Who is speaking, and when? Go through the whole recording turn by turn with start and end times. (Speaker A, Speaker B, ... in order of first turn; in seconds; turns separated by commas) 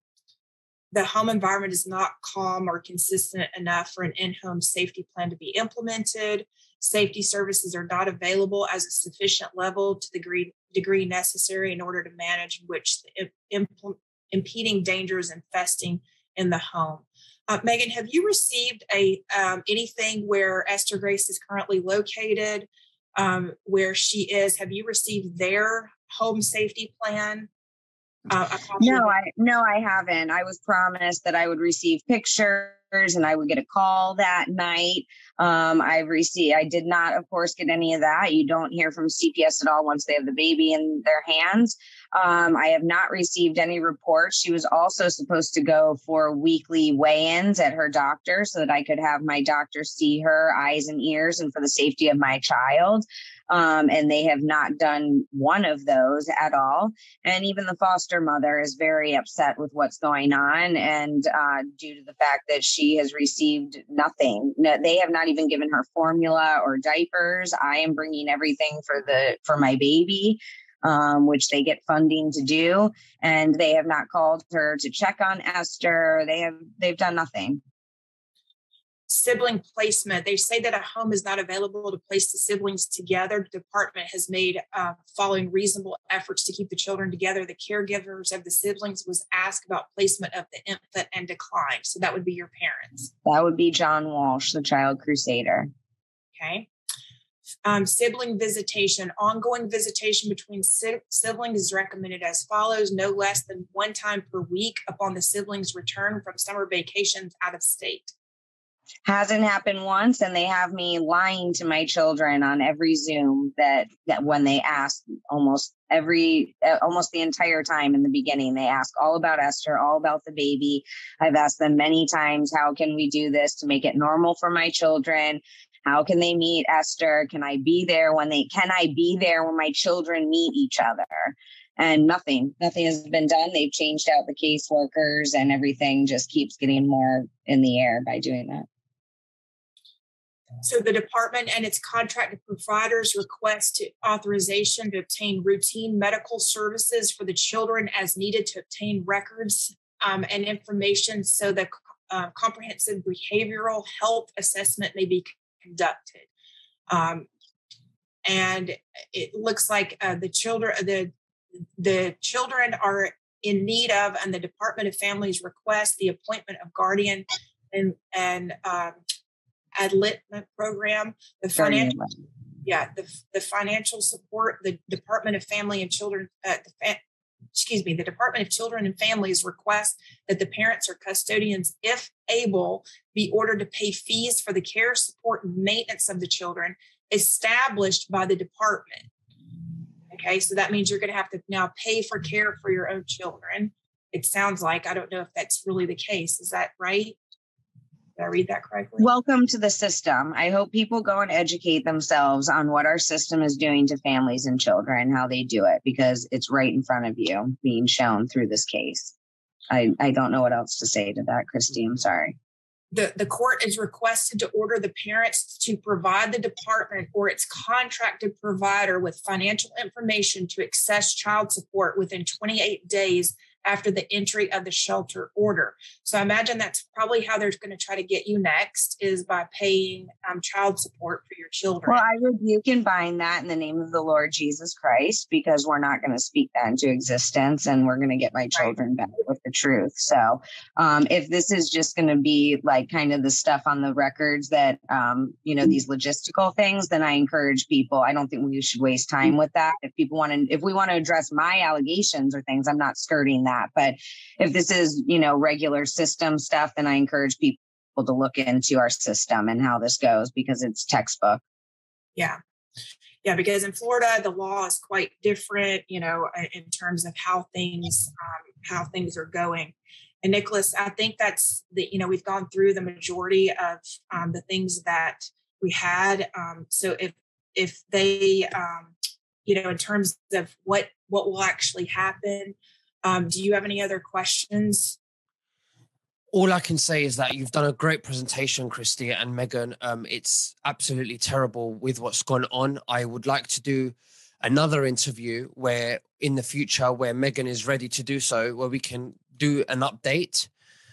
Speaker A: 0.9-27.5, Speaker A: 28.3-29.1, Speaker B: 28.8-77.6, Speaker A: 79.1-93.1, Speaker B: 93.2-95.7, Speaker A: 96.3-96.7, Speaker A: 97.6-108.1, Speaker B: 109.0-138.7, Speaker A: 140.6-156.3, Speaker A: 156.9-157.3, Speaker A: 158.2-161.1, Speaker A: 161.8-169.0, Speaker A: 169.8-171.9, Speaker B: 171.6-172.1, Speaker A: 172.6-177.0, Speaker A: 177.5-189.1, Speaker A: 190.1-197.2, Speaker A: 198.2-199.1, Speaker B: 199.0-209.1, Speaker B: 209.7-212.3, Speaker A: 212.9-232.0, Speaker B: 231.8-261.4, Speaker A: 263.2-278.9, Speaker A: 279.4-285.0, Speaker C: 286.3-300.5